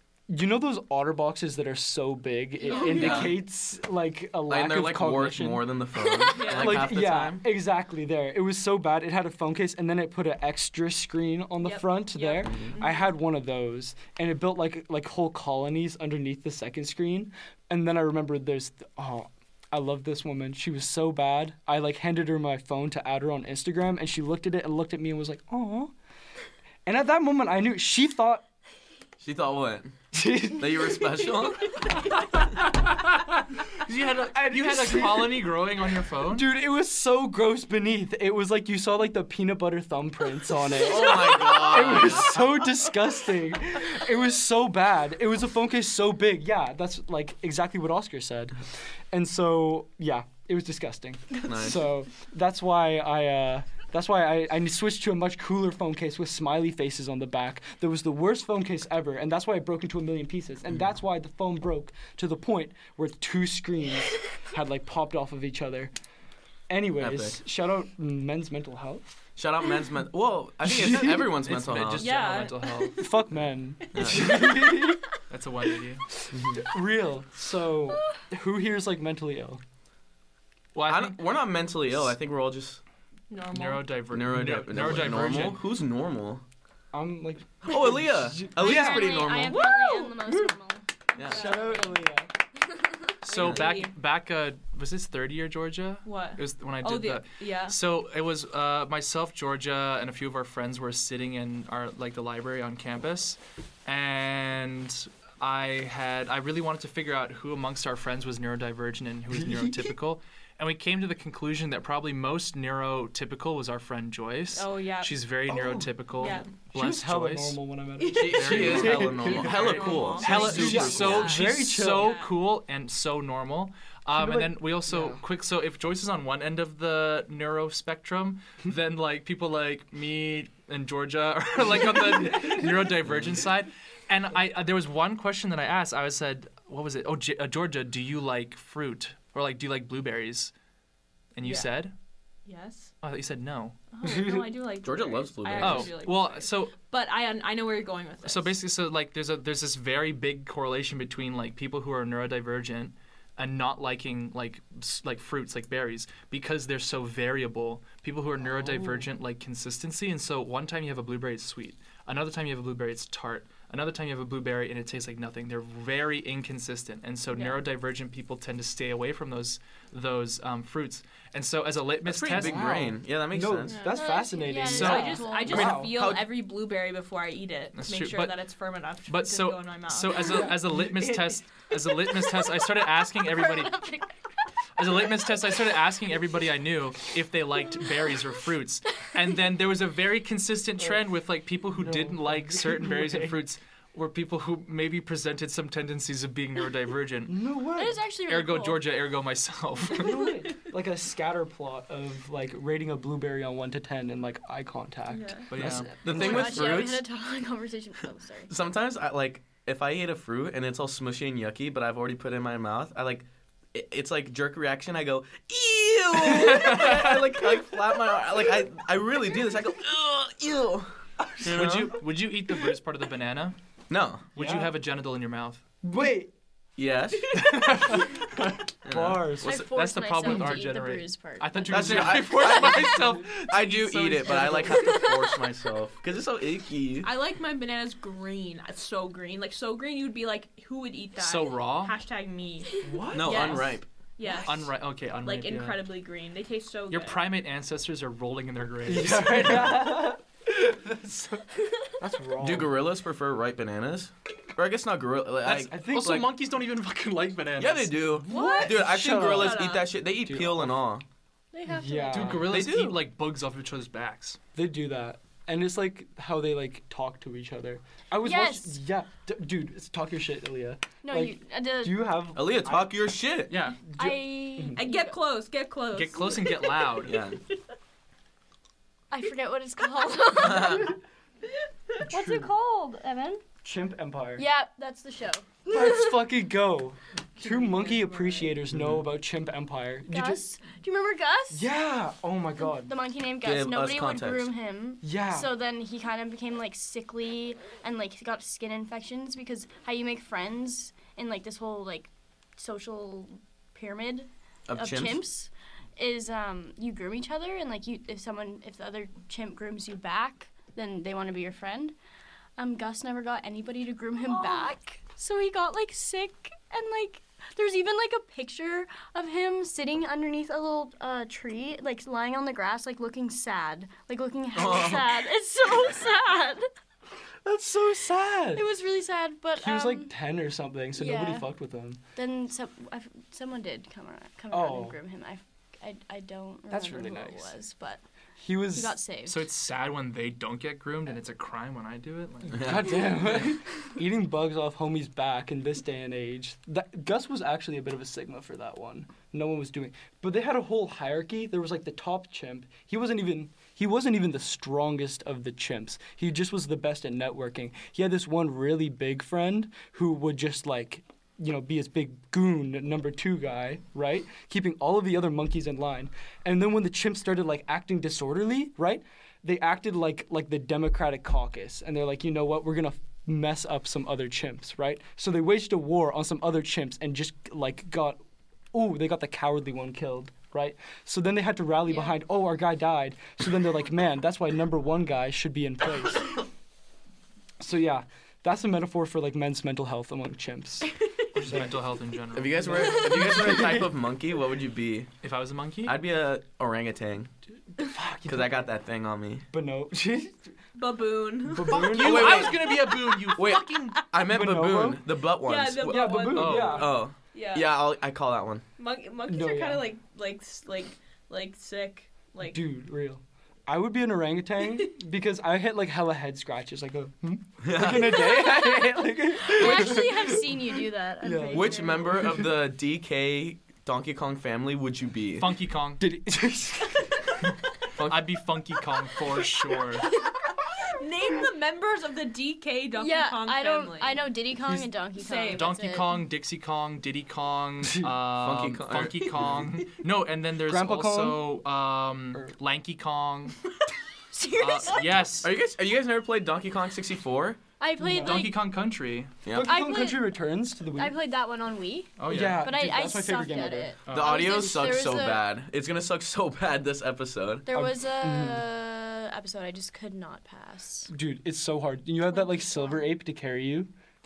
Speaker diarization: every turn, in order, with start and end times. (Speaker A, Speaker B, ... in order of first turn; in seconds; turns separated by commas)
Speaker A: 0.3-5.7, Speaker B: 2.6-3.3, Speaker C: 2.9-3.4, Speaker C: 4.5-7.5, Speaker B: 6.3-6.9, Speaker A: 6.4-25.9, Speaker B: 11.6-13.1, Speaker A: 26.8-28.4, Speaker C: 29.2-32.1, Speaker A: 30.1-31.4, Speaker D: 32.6-36.5, Speaker A: 34.3-35.6, Speaker A: 36.3-48.6, Speaker C: 40.7-42.6, Speaker A: 49.1-65.9, Speaker C: 51.4-51.9, Speaker A: 66.7-69.2, Speaker C: 67.0-67.4, Speaker C: 69.4-72.1, Speaker A: 70.6-71.5, Speaker D: 71.3-73.0, Speaker B: 71.9-73.1, Speaker A: 73.0-75.0, Speaker C: 73.9-74.7, Speaker D: 75.3-76.1, Speaker C: 76.3-76.7, Speaker A: 76.5-79.6, Speaker D: 80.7-81.2, Speaker C: 80.8-82.8, Speaker B: 83.3-83.9, Speaker D: 83.5-85.6, Speaker C: 84.1-86.4, Speaker A: 86.9-89.3, Speaker C: 87.6-89.7, Speaker E: 88.5-91.6, Speaker B: 89.5-90.1, Speaker A: 90.2-90.6, Speaker C: 91.2-91.5, Speaker A: 91.3-92.3, Speaker B: 91.3-91.8, Speaker B: 93.2-93.9, Speaker D: 93.2-117.6, Speaker C: 93.3-93.6, Speaker B: 96.0-97.8, Speaker A: 109.3-109.9, Speaker B: 114.5-115.2, Speaker A: 115.5-115.9, Speaker B: 116.2-116.5, Speaker A: 116.7-122.2, Speaker C: 118.1-121.3, Speaker D: 118.1-140.5, Speaker B: 118.5-122.3, Speaker A: 124.1-125.2, Speaker D: 141.3-141.9, Speaker B: 141.4-141.8, Speaker B: 142.4-142.9, Speaker D: 143.0-143.8, Speaker B: 143.9-148.5, Speaker A: 144.0-144.4, Speaker C: 144.8-145.9, Speaker D: 145.6-146.8, Speaker D: 148.2-172.8, Speaker A: 158.4-159.0, Speaker B: 167.3-167.6, Speaker C: 172.1-173.9, Speaker A: 172.3-175.9, Speaker B: 173.7-180.4, Speaker E: 173.9-175.7, Speaker D: 174.6-175.2, Speaker C: 175.5-176.3, Speaker D: 177.7-178.4, Speaker D: 179.1-183.8, Speaker A: 180.3-181.3, Speaker E: 183.3-184.1, Speaker D: 184.8-197.4, Speaker A: 191.8-193.4, Speaker A: 197.2-198.0, Speaker E: 197.8-198.9, Speaker D: 198.2-200.4, Speaker A: 199.9-206.4, Speaker B: 205.1-205.5, Speaker D: 205.5-206.2, Speaker C: 205.6-207.1, Speaker E: 205.9-208.5, Speaker C: 208.5-222.0, Speaker A: 216.2-216.8, Speaker D: 216.4-217.1, Speaker A: 221.2-221.7, Speaker D: 221.4-223.6, Speaker C: 223.9-224.3, Speaker D: 224.3-225.6, Speaker A: 224.3-224.7, Speaker A: 225.8-226.3, Speaker C: 226.8-227.8, Speaker D: 227.4-228.1, Speaker A: 227.6-229.6, Speaker C: 228.8-229.6, Speaker E: 229.4-232.9, Speaker D: 229.4-235.0, Speaker C: 231.7-237.1, Speaker E: 234.8-235.4, Speaker B: 237.0-247.2, Speaker D: 241.2-241.9, Speaker A: 242.8-243.6, Speaker C: 243.1-243.8, Speaker D: 244.2-245.8, Speaker D: 246.9-249.9, Speaker A: 248.8-252.8, Speaker C: 252.4-256.2, Speaker D: 255.4-257.9, Speaker A: 255.6-256.3, Speaker C: 257.6-261.0, Speaker A: 258.2-260.8, Speaker B: 258.3-259.9, Speaker E: 261.5-262.4, Speaker A: 261.7-262.6, Speaker D: 262.1-264.4, Speaker C: 262.4-263.0, Speaker A: 264.5-272.9, Speaker E: 268.2-268.8, Speaker E: 271.0-272.2, Speaker C: 272.3-273.5, Speaker D: 273.5-273.8, Speaker A: 273.9-274.8, Speaker E: 274.0-275.2, Speaker B: 274.7-277.2, Speaker D: 275.9-277.2, Speaker C: 277.0-277.4, Speaker E: 279.1-281.0, Speaker C: 280.6-280.9, Speaker A: 282.0-282.5, Speaker E: 282.1-283.4, Speaker A: 283.6-284.4, Speaker E: 284.4-286.2, Speaker A: 285.7-290.4, Speaker B: 287.4-288.6, Speaker C: 288.7-289.0, Speaker E: 290.1-291.7, Speaker A: 291.5-292.9, Speaker E: 292.6-311.9, Speaker C: 293.4-294.5, Speaker A: 295.0-295.5, Speaker C: 304.7-305.2, Speaker E: 312.6-326.7, Speaker C: 324.5-325.3, Speaker A: 327.4-328.7, Speaker E: 328.6-330.1, Speaker A: 329.6-332.0, Speaker E: 330.9-331.5, Speaker E: 332.1-338.0, Speaker A: 334.5-335.0, Speaker A: 336.7-337.5, Speaker A: 338.4-339.0, Speaker E: 338.7-339.4, Speaker D: 339.2-343.5, Speaker A: 342.5-378.2, Speaker C: 342.5-343.0, Speaker A: 378.7-386.4, Speaker A: 387.6-391.8, Speaker D: 391.3-393.1, Speaker C: 392.3-395.1, Speaker A: 392.6-393.9, Speaker D: 395.2-396.0, Speaker C: 395.8-397.3, Speaker A: 397.8-398.7, Speaker C: 398.2-399.5, Speaker A: 399.5-400.5, Speaker B: 400.7-403.9, Speaker A: 401.4-402.6, Speaker D: 401.7-404.0, Speaker C: 401.9-402.7, Speaker C: 403.3-408.6, Speaker A: 404.2-405.1, Speaker B: 405.4-407.7, Speaker A: 405.8-406.9, Speaker D: 406.3-406.9, Speaker B: 408.8-412.6, Speaker A: 409.3-409.9, Speaker A: 412.4-420.6, Speaker C: 417.6-418.4, Speaker E: 418.3-422.2, Speaker A: 421.2-422.5, Speaker C: 421.5-425.6, Speaker D: 425.4-426.1, Speaker A: 426.0-427.4, Speaker D: 428.0-430.1, Speaker B: 430.8-434.2, Speaker E: 433.0-436.2, Speaker B: 435.2-435.7, Speaker D: 435.5-443.6, Speaker C: 438.3-439.8, Speaker A: 440.6-441.5, Speaker E: 444.3-445.3, Speaker D: 444.6-445.5, Speaker C: 445.4-447.6, Speaker E: 447.8-448.6, Speaker A: 448.0-448.5, Speaker D: 448.1-449.3, Speaker C: 449.4-449.9, Speaker A: 449.5-451.2, Speaker E: 449.6-450.3, Speaker E: 450.9-455.4, Speaker D: 452.2-452.7, Speaker A: 452.3-453.9, Speaker D: 454.1-454.4, Speaker C: 454.1-457.7, Speaker E: 457.7-461.1, Speaker A: 457.7-458.7, Speaker A: 461.1-463.9, Speaker E: 462.3-463.1